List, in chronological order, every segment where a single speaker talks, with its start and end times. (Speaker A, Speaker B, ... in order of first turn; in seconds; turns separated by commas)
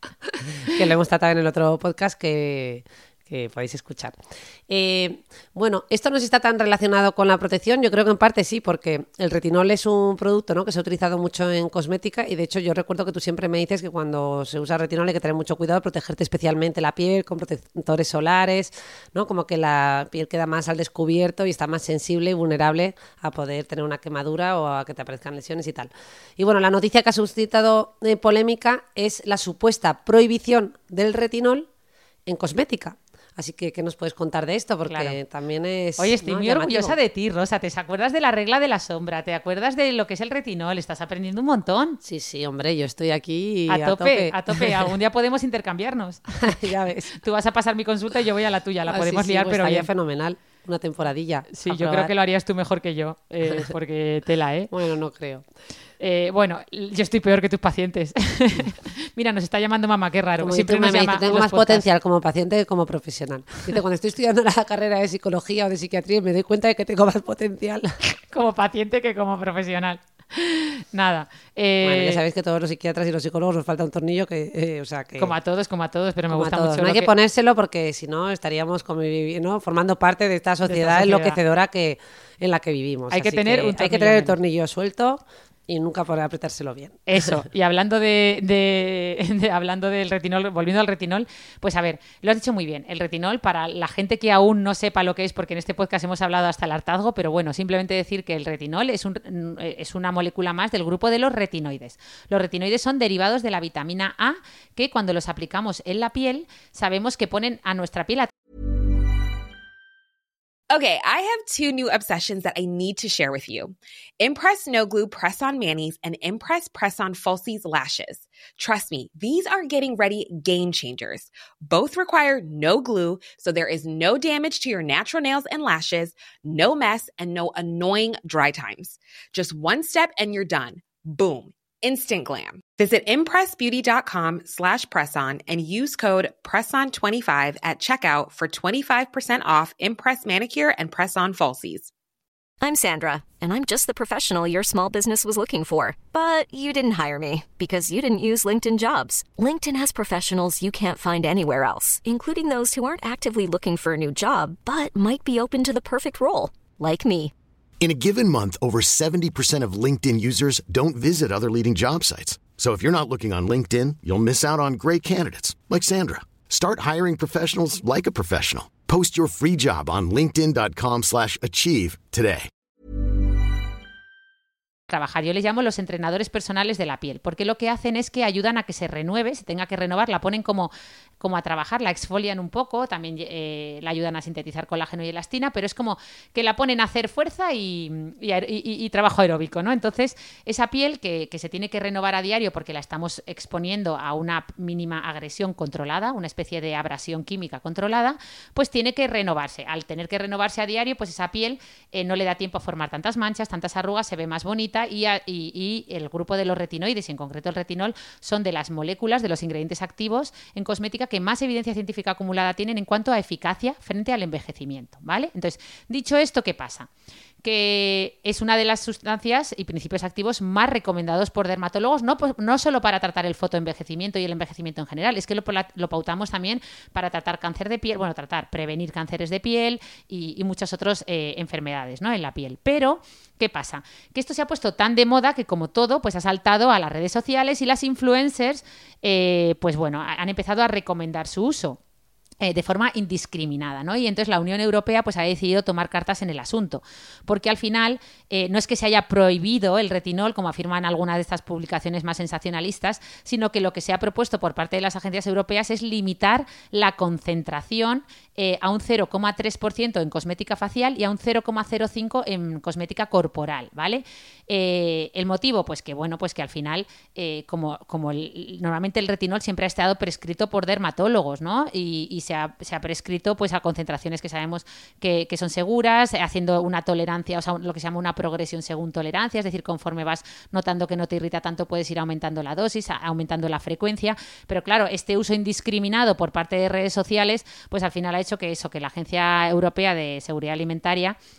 Speaker A: 0.3-31.7, Speaker A: 32.2-37.0, Speaker B: 34.9-35.2, Speaker B: 36.0-42.0, Speaker A: 42.0-44.9, Speaker B: 43.7-46.2, Speaker A: 46.4-47.1, Speaker B: 47.1-49.9, Speaker A: 48.9-52.1, Speaker B: 51.5-54.7, Speaker A: 54.7-55.4, Speaker B: 56.0-61.9, Speaker A: 60.4-67.9, Speaker B: 68.3-72.2, Speaker A: 71.8-75.3, Speaker B: 75.2-77.1, Speaker A: 76.3-87.4, Speaker B: 80.6-81.4, Speaker B: 83.1-84.4, Speaker B: 87.1-108.3, Speaker C: 110.7-141.9, Speaker D: 142.6-157.3, Speaker E: 157.8-172.5, Speaker B: 174.9-216.9, Speaker B: 217.4-241.8, Speaker B: 242.4-291.2